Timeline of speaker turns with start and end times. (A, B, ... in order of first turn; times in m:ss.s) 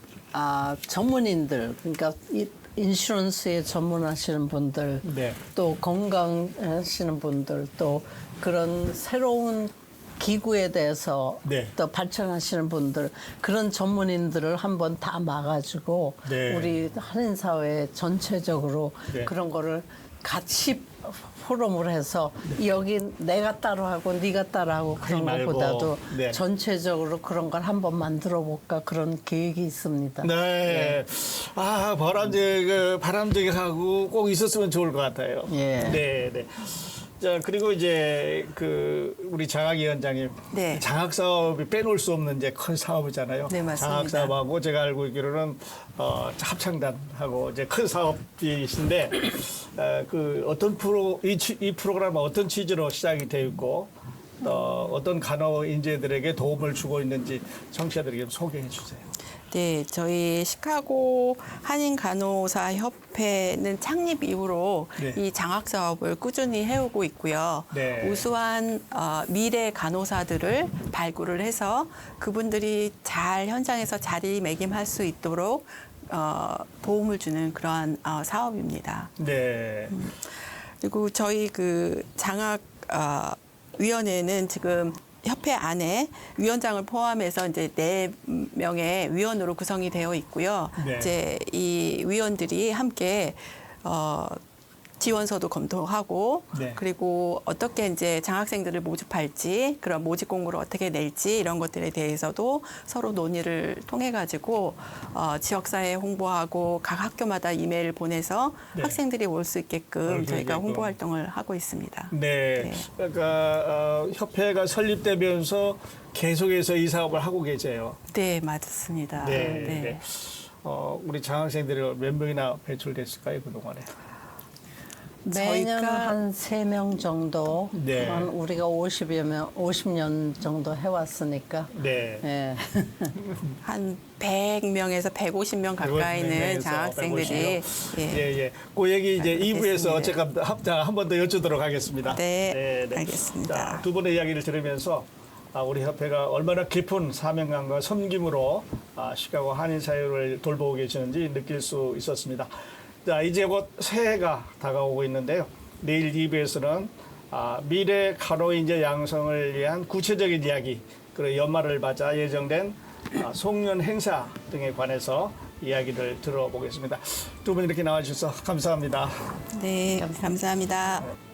0:00.3-0:31.0 A
0:05.0-0:05.4 B
0:11.4-0:11.7 B
0:16.2-0:16.7 B
0:25.0-0:26.4 B
0:30.2-0:59.1 B
0:35.5-0:36.0 A
0:40.5-0:40.9 C
0:43.5-0:44.4 C
0:59.5-1:19.1 C
1:07.7-1:08.3 B
1:19.2-1:20.0 B
1:19.9-1:34.4 C
1:30.8-1:31.2 B
1:35.0-1:52.9 C
1:36.5-1:36.8 B
1:48.8-1:49.0 B
1:50.1-1:51.0 B
1:52.1-1:58.0 B
1:58.1-2:00.0 C
1:59.2-2:03.9 B
1:59.4-1:59.7 A
2:05.2-2:13.2 A
2:05.3-2:06.2 C
2:07.7-2:08.3 B
2:11.7-2:12.2 B
2:13.6-2:18.3 C
2:15.8-2:32.5 B
2:19.2-2:20.2 C
2:22.1-2:23.8 C
2:33.0-2:49.3 B
2:49.5-2:51.1 C